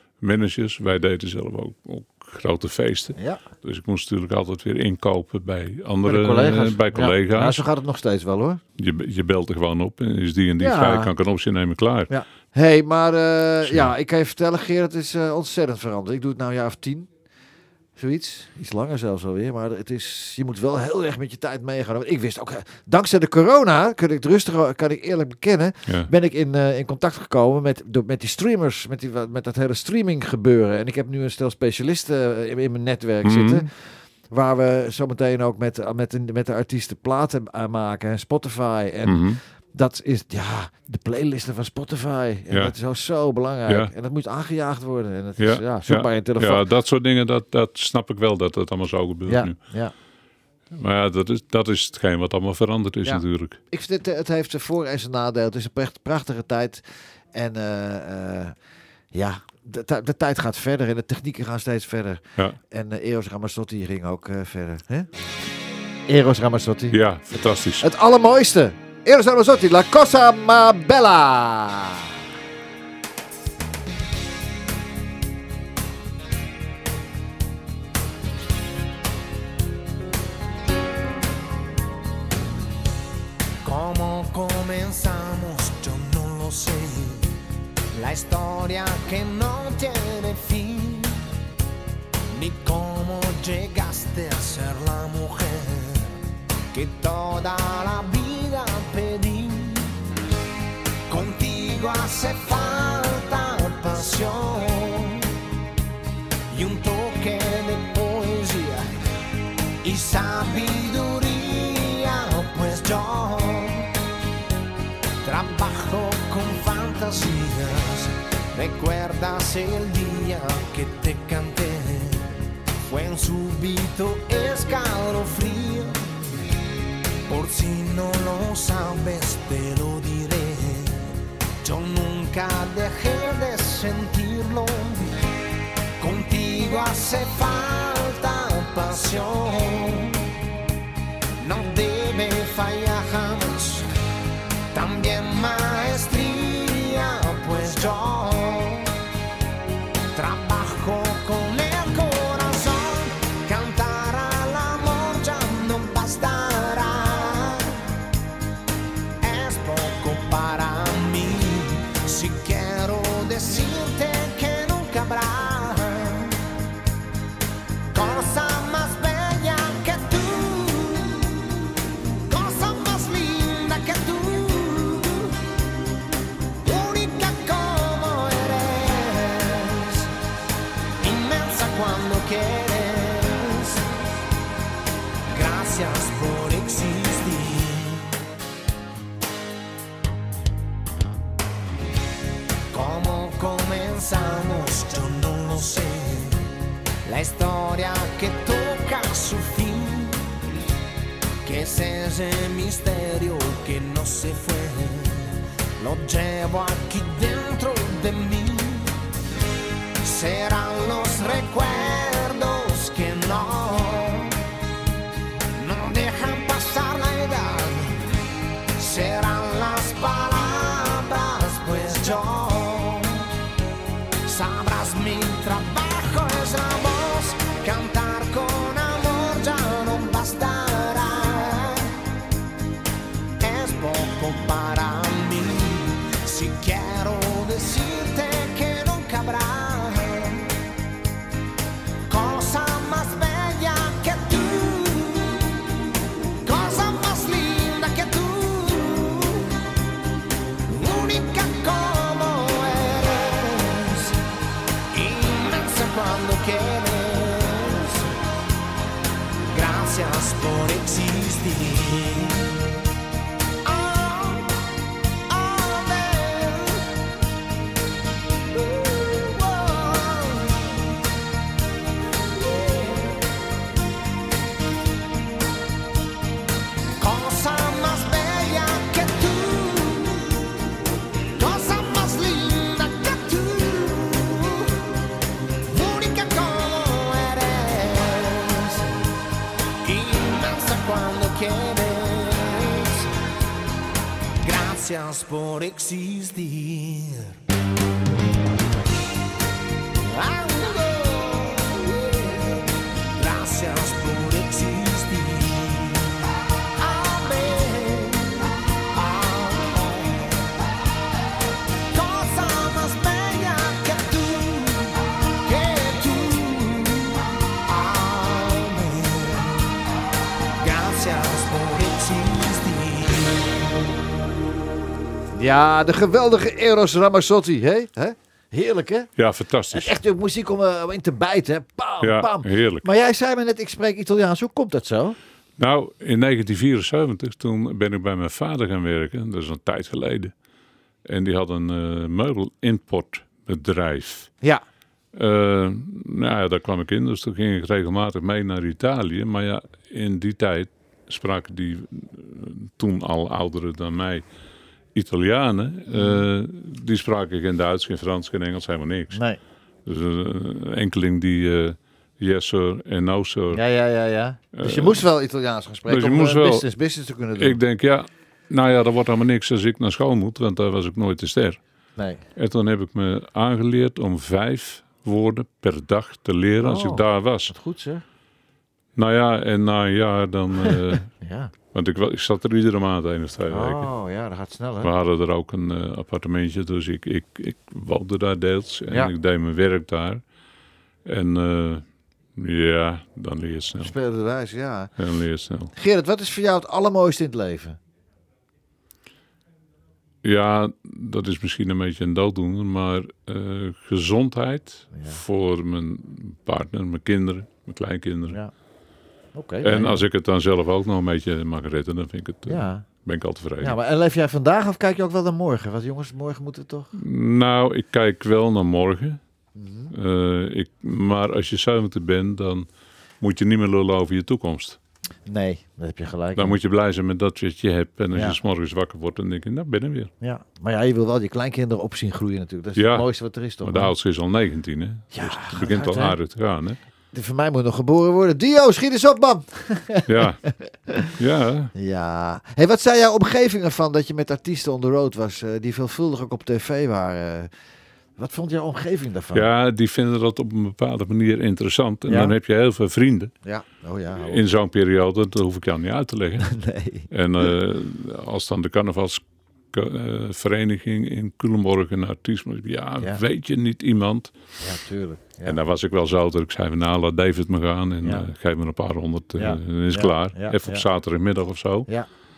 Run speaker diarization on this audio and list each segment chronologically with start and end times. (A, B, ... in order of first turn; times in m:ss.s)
0:00.2-0:07.6 A
0:03.2-0:03.4 B
0:06.0-0:08.6 B
0:08.8-0:12.1 A
0:10.6-0:11.1 B
0:12.1-0:17.1 B
0:13.6-0:13.9 A
0:18.0-0:33.7 B
0:33.2-0:33.6 A
0:34.3-0:39.2 B
0:39.0-0:39.4 A
0:39.7-0:46.7 B
0:43.7-0:43.9 A
0:45.4-0:49.6 A
0:49.3-0:49.9 B
0:50.7-0:53.6 A
0:53.0-0:56.8 B
0:57.3-0:58.5 B
0:59.1-1:05.1 B
1:06.1-1:07.0 B
1:06.9-1:07.8 A
1:07.8-1:12.1 B
1:23.6-1:27.3 C
1:27.9-1:31.2 C
1:32.3-1:36.2 C
1:36.7-1:39.9 C
1:41.1-1:45.3 C
1:46.5-1:48.9 C
1:49.8-1:53.9 C
1:55.2-2:02.3 C
2:02.8-2:06.1 C
2:07.3-2:11.1 C
2:11.6-2:15.1 C
2:16.0-2:20.3 C
2:21.4-2:23.8 C
2:24.7-2:28.9 C
2:30.1-2:37.8 C
2:39.2-2:46.4 C
2:47.9-2:51.4 C
2:52.3-2:55.3 C
2:56.6-3:00.1 C
3:01.0-3:03.9 C
3:05.3-3:08.2 C
3:12.7-3:16.4 C
3:17.0-3:20.2 C
3:21.4-3:29.0 C
3:30.0-3:34.4 C
3:35.6-3:38.0 C
3:38.8-3:43.3 C
3:44.2-3:51.9 C
3:53.4-4:00.5 C
4:02.1-4:05.4 C
4:06.4-4:09.5 C
4:10.7-4:14.1 C
4:14.9-4:18.1 C
4:19.5-4:22.5 C
4:23.6-4:24.5 C
4:25.3-4:26.9 C
4:28.5-4:30.7 C
4:32.3-4:33.2 C
4:37.0-4:40.3 C
4:41.4-4:44.8 C
4:45.7-4:48.9 C
4:49.8-4:53.1 C
4:54.4-4:57.3 C
5:00.0-5:02.6 C
5:03.2-5:06.0 C
5:06.8-5:10.5 C
5:11.9-5:19.7 C
5:20.6-5:23.7 C
5:25.4-5:29.1 B
5:29.2-5:29.9 A
5:29.7-5:35.2 B
5:32.0-5:32.9 A
5:35.6-5:40.3 A
5:41.0-5:44.3 A
5:45.1-5:54.2 A
5:54.9-5:59.2 A
5:55.9-5:56.2 B
5:59.1-5:59.4 B
5:59.8-6:03.6 A
6:03.5-6:07.6 B
6:04.5-6:05.0 A
6:05.9-6:06.7 A
6:07.4-6:11.6 A
6:12.0-6:12.2 B
6:12.4-6:17.5 A
6:16.6-6:18.0 B
6:19.0-6:21.0 A
6:20.7-6:21.5 B
6:21.7-6:23.9 A
6:23.5-6:24.9 B
6:24.8-6:30.2 A
6:31.0-6:33.9 A
6:33.8-6:34.9 B
6:35.0-6:35.7 A
6:35.7-6:37.8 B
6:40.2-6:48.4 A
6:44.9-6:45.2 B
6:49.3-6:50.0 B
6:49.6-6:53.8 A
6:52.5-6:52.8 B
6:53.6-6:56.9 B
6:56.9-6:59.2 A
6:59.6-6:59.9 B
6:59.9-7:02.7 A
7:03.2-7:04.8 A
7:05.3-7:06.6 B
7:06.4-7:10.1 A
7:08.1-7:08.4 B
7:10.2-7:13.9 B
7:12.8-7:13.1 A
7:13.6-7:16.8 A
7:15.1-7:16.2 B
7:17.1-7:21.1 B
7:20.1-7:20.4 A
7:21.2-7:21.7 A
7:21.8-7:27.5 B
7:28.2-7:29.5 B
7:29.3-7:33.3 A
7:32.1-7:32.3 B
7:33.4-7:34.4 B
7:34.2-7:36.5 A
7:36.4-7:37.1 B
7:37.1-7:44.3 A
7:44.6-7:45.6 B
7:45.4-7:51.9 A
7:49.4-7:50.8 B